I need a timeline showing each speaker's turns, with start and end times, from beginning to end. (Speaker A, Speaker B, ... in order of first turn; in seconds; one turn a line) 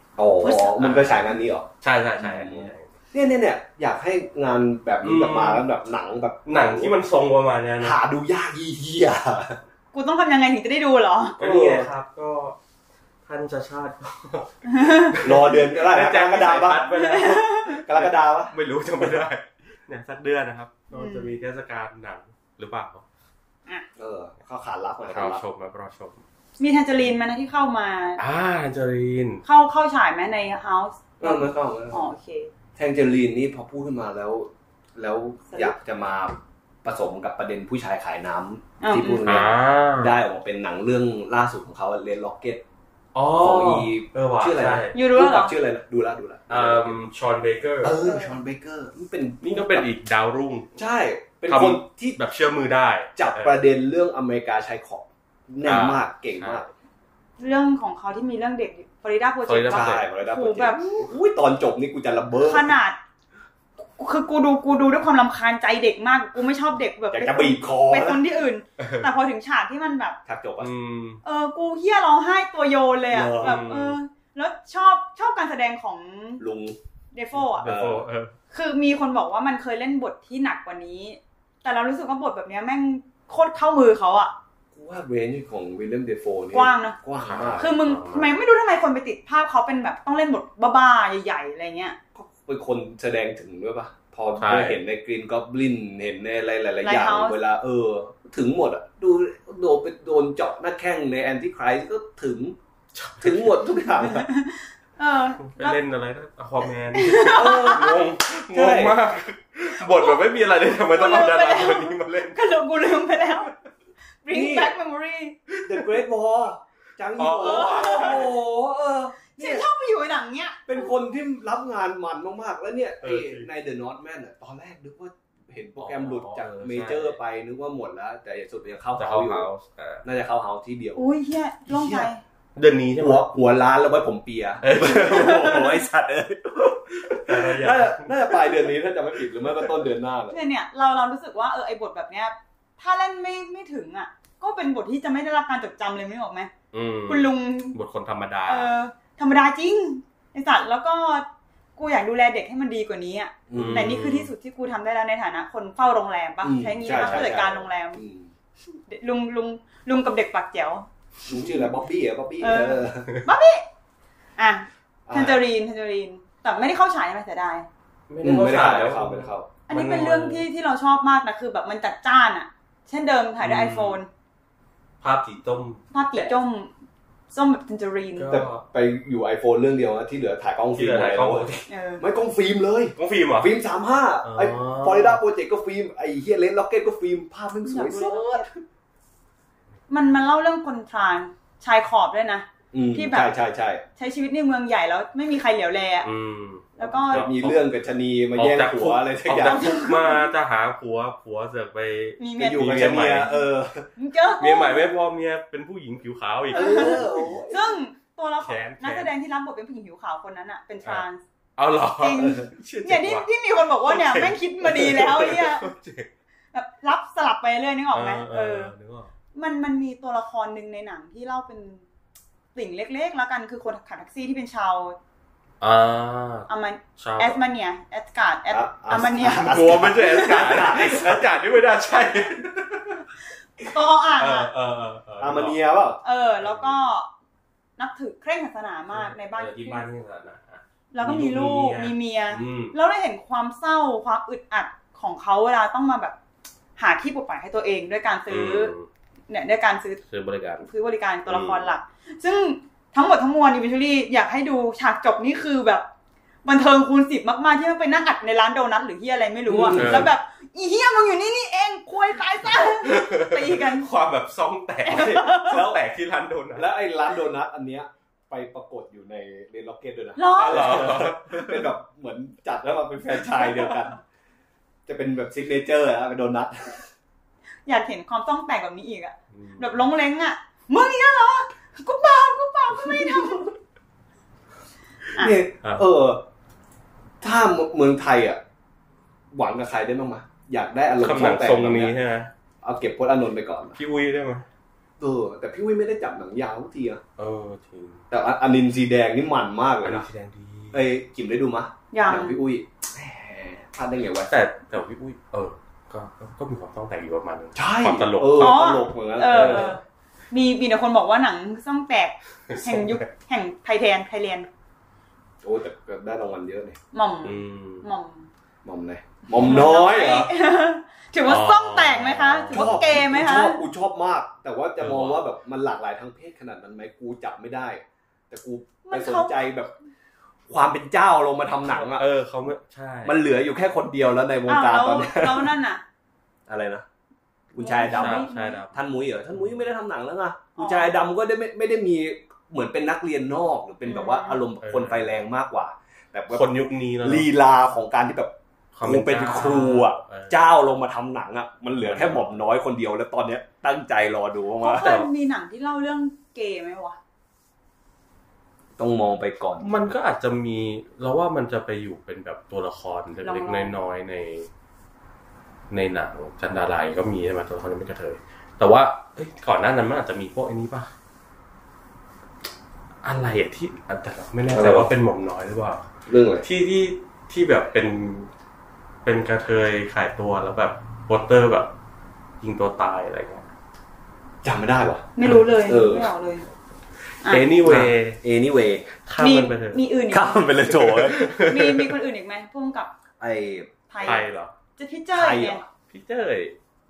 Speaker A: 0.2-6.9
Speaker B: 0.4-0.8
Speaker C: 0.8-1.3
Speaker C: 1.8-2.9
Speaker C: 5.0-5.7
Speaker C: 6.5-8.0
Speaker A: 7.8-9.6
Speaker B: 9.9-11.4
Speaker A: 11.4-11.9
Speaker C: 11.4-12.6
Speaker C: 13.3-23.0
Speaker B: 14.7-15.2
Speaker A: 15.2-16.9
Speaker B: 16.9-17.8
Speaker A: 17.9-19.2
Speaker B: 20.9-21.3
Speaker A: 24.0-25.4
Speaker C: 25.1-26.2
Speaker B: 26.6-28.2
Speaker C: 28.2-29.4
Speaker B: 29.4-32.5
Speaker A: 31.2-32.0
Speaker A: 32.8-42.6
Speaker B: 35.5-35.8
Speaker B: 38.8-39.5
Speaker C: 39.2-40.1
Speaker C: 43.1-45.0
Speaker A: 43.4-47.0
Speaker B: 44.9-45.5
Speaker C: 46.5-48.0
Speaker A: 47.8-49.9
Speaker B: 48.0-48.3
Speaker C: 49.4-50.7
Speaker A: 50.8-52.2
Speaker C: 51.5-53.6
Speaker A: 53.2-56.7
Speaker C: 55.6-56.6
Speaker B: 57.4-61.0
Speaker C: 59.5-60.0
Speaker A: 59.7-62.8
Speaker B: 62.4-63.0
Speaker B: 64.0-70.2
Speaker A: 67.1-68.2
Speaker C: 68.8-69.1
Speaker A: 70.3-70.7
Speaker C: 70.6-71.2
Speaker B: 71.2-76.4
Speaker A: 73.1-73.7
Speaker C: 73.3-74.0
Speaker A: 76.4-76.8
Speaker B: 77.1-77.7
Speaker C: 77.5-78.3
Speaker A: 77.6-78.0
Speaker B: 78.5-84.3
Speaker A: 84.7-87.7
Speaker B: 86.5-87.0
Speaker C: 87.2-88.3
Speaker B: 87.6-92.0
Speaker A: 92.2-102.6
Speaker C: 94.4-94.8
Speaker B: 96.8-97.4
Speaker C: 103.0-103.7
Speaker A: 103.2-104.3
Speaker B: 104.0-105.8
Speaker C: 105.4-112.4
Speaker B: 106.9-107.8
Speaker A: 107.3-109.0
Speaker B: 109.8-110.2
Speaker B: 110.9-113.5
Speaker B: 114.2-115.4
Speaker A: 114.3-114.7
Speaker A: 115.6-119.7
Speaker C: 117.2-118.3
Speaker B: 117.4-118.3
Speaker B: 119.3-120.9
Speaker A: 120.7-129.5
Speaker C: 123.0-123.5
Speaker C: 125.8-127.2
Speaker C: 129.0-130.0
Speaker A: 130.0-131.0
Speaker B: 131.0-132.2
Speaker A: 131.7-132.1
Speaker C: 132.6-133.2
Speaker A: 133.0-140.4
Speaker C: 134.6-135.8
Speaker C: 137.1-138.4
Speaker B: 140.3-146.5
Speaker C: 146.7-148.7
Speaker B: 147.1-147.8
Speaker B: 148.5-151.3
Speaker B: 151.8-158.0
Speaker A: 153.5-154.1
Speaker C: 153.6-154.3
Speaker A: 156.4-158.3
Speaker C: 156.9-157.4
Speaker B: 158.7-161.7
Speaker A: 161.3-163.1
Speaker B: 162.4-163.7
Speaker B: 164.4-167.7
Speaker A: 165.1-165.4
Speaker C: 168.1-170.4
Speaker A: 168.2-169.5
Speaker B: 169.7-174.1
Speaker C: 173.4-174.0
Speaker C: 175.0-175.8
Speaker B: 175.9-176.7
Speaker B: 177.3-178.4
Speaker C: 178.2-178.6
Speaker A: 178.3-188.5
Speaker C: 180.7-181.5
Speaker B: 181.7-182.0
Speaker C: 183.0-183.5
Speaker C: 184.2-185.2
Speaker B: 187.6-188.5
Speaker B: 189.9-193.3
Speaker A: 192.7-193.8
Speaker B: 194.0-196.1
Speaker C: 196.0-197.6
Speaker B: 196.8-197.3
Speaker A: 196.8-199.8
Speaker C: 198.3-203.4
Speaker B: 199.4-200.3
Speaker B: 202.2-203.2
Speaker A: 202.4-203.9
Speaker B: 204.0-204.9
Speaker C: 204.4-207.1
Speaker A: 206.5-207.7
Speaker B: 206.5-211.2
Speaker C: 208.4-209.1
Speaker C: 211.6-213.3
Speaker B: 212.0-215.7
Speaker C: 213.8-216.1
Speaker B: 216.5-218.7
Speaker C: 217.9-219.1
Speaker B: 219.3-221.9
Speaker B: 222.6-225.0
Speaker C: 225.6-227.4
Speaker B: 226.5-230.6
Speaker A: 228.5-231.3
Speaker C: 229.2-233.0
Speaker B: 233.6-234.5
Speaker C: 234.2-235.6
Speaker A: 235.2-236.0
Speaker B: 236.0-237.1
Speaker C: 236.4-236.9
Speaker B: 237.8-239.8
Speaker C: 238.9-242.8
Speaker B: 240.9-246.2
Speaker B: 246.8-248.7
Speaker C: 248.3-248.9
Speaker B: 249.3-250.0
Speaker C: 250.1-250.7
Speaker B: 250.6-255.9
Speaker C: 251.3-251.7
Speaker B: 256.4-263.9
Speaker A: 259.5-260.1
Speaker C: 259.7-260.1
Speaker C: 262.8-266.7
Speaker B: 264.9-265.6
Speaker A: 264.9-265.8
Speaker A: 266.6-274.0
Speaker B: 270.2-271.0
Speaker C: 270.4-271.7
Speaker C: 273.4-273.7
Speaker A: 274.9-276.9
Speaker B: 277.7-283.5
Speaker C: 279.3-279.7
Speaker A: 285.2-286.2
Speaker A: 287.2-288.4
Speaker A: 289.3-292.0
Speaker C: 291.0-292.3
Speaker A: 292.6-293.8
Speaker C: 293.8-294.5
Speaker A: 295.0-297.0
Speaker C: 297.2-298.0
Speaker A: 298.1-300.1
Speaker C: 299.8-300.8
Speaker A: 300.7-304.3
Speaker B: 301.9-302.4
Speaker C: 304.3-308.6
Speaker A: 307.6-309.8
Speaker B: 308.4-314.5
Speaker C: 309.3-309.8
Speaker C: 312.5-313.0
Speaker A: 315.4-316.8
Speaker B: 316.9-318.3
Speaker C: 317.2-317.9
Speaker A: 318.6-320.3
Speaker B: 319.4-323.6
Speaker C: 321.2-323.0
Speaker A: 322.5-329.7
Speaker C: 324.8-325.3
Speaker B: 328.9-329.5
Speaker A: 330.5-332.1
Speaker C: 331.6-333.2
Speaker A: 333.1-335.6
Speaker B: 334.5-335.8
Speaker A: 336.5-336.9
Speaker A: 337.5-346.5
Speaker B: 337.6-338.6
Speaker C: 337.9-338.8
Speaker B: 340.6-340.9
Speaker B: 343.8-344.4
Speaker C: 344.6-345.2
Speaker C: 346.3-347.3
Speaker A: 347.0-355.0
Speaker C: 348.8-350.5
Speaker C: 351.8-352.4
Speaker B: 354.6-357.0
Speaker C: 354.8-355.1
Speaker A: 358.8-359.7
Speaker C: 359.6-364.5
Speaker B: 363.2-363.8
Speaker C: 365.7-370.9
Speaker C: 373.0-375.9
Speaker A: 374.5-374.9
Speaker A: 376.1-376.5
Speaker C: 376.4-378.3
Speaker C: 379.1-381.7
Speaker C: 382.4-383.5
Speaker A: 384.4-385.1
Speaker B: 385.2-386.5
Speaker A: 385.6-386.1
Speaker C: 387.2-388.2
Speaker A: 387.6-388.9
Speaker C: 389.0-389.8
Speaker B: 389.2-390.5
Speaker A: 390.1-391.3
Speaker C: 390.6-392.0
Speaker B: 391.2-392.9
Speaker A: 393.2-393.7
Speaker B: 393.9-395.6
Speaker C: 394.0-394.5
Speaker A: 395.1-395.7
Speaker C: 395.9-396.6